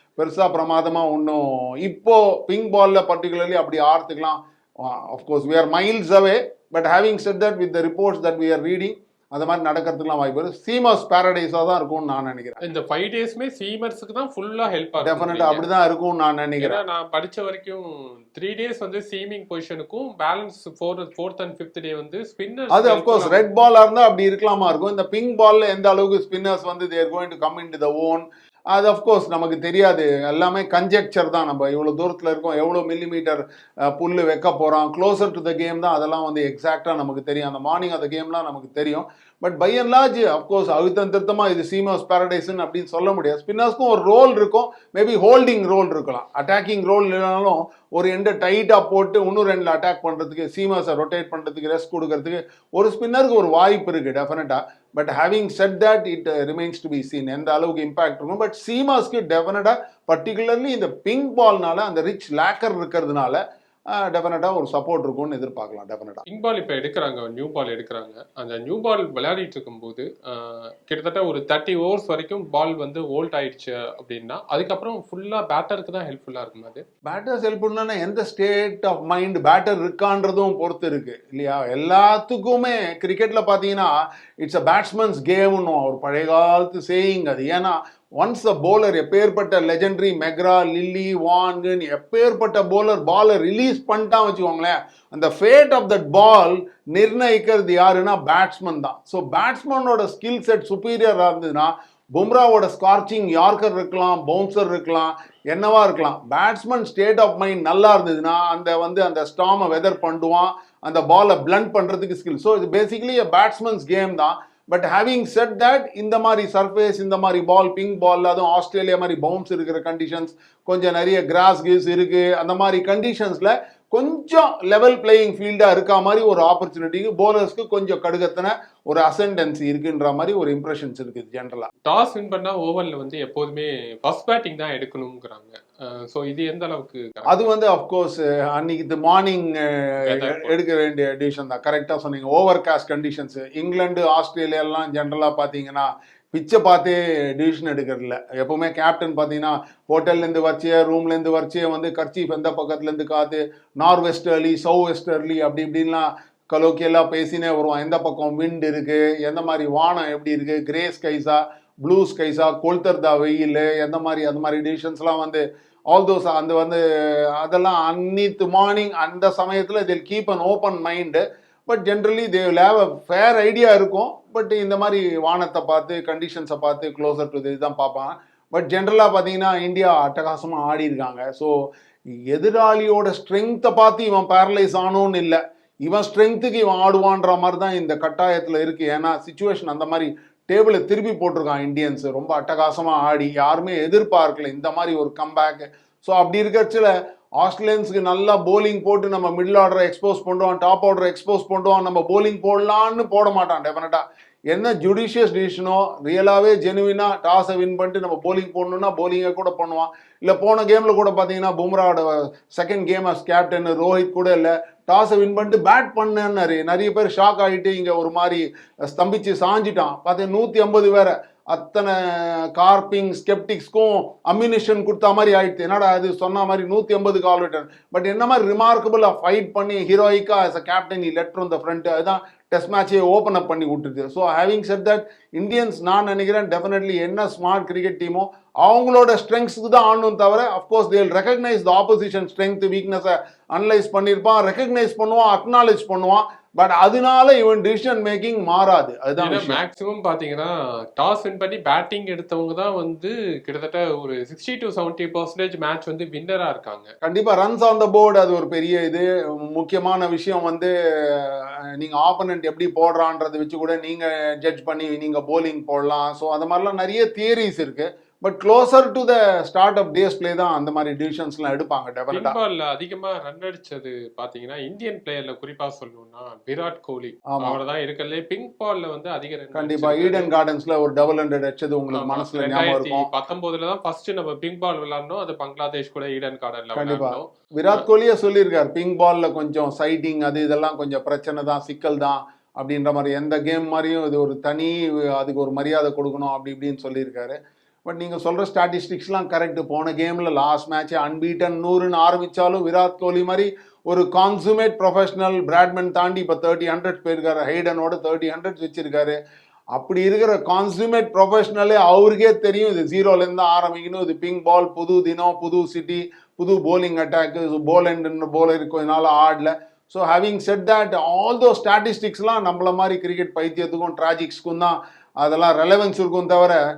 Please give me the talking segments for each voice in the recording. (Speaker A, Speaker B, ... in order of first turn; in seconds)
Speaker A: 0.2-12.6, 15.0-16.8, 22.7-66.2, 77.0-131.7, 137.2-181.5, 182.1-249.6, 257.0-272.4, 277.3-277.6, 279.5-283.1, 286.7-309.2, 309.7-326.6
Speaker B: 12.6-15.7, 16.6-23.4, 66.2-76.8, 131.8-137.3, 140.0-140.5, 249.2-256.9, 272.1-280.3, 281.9-287.8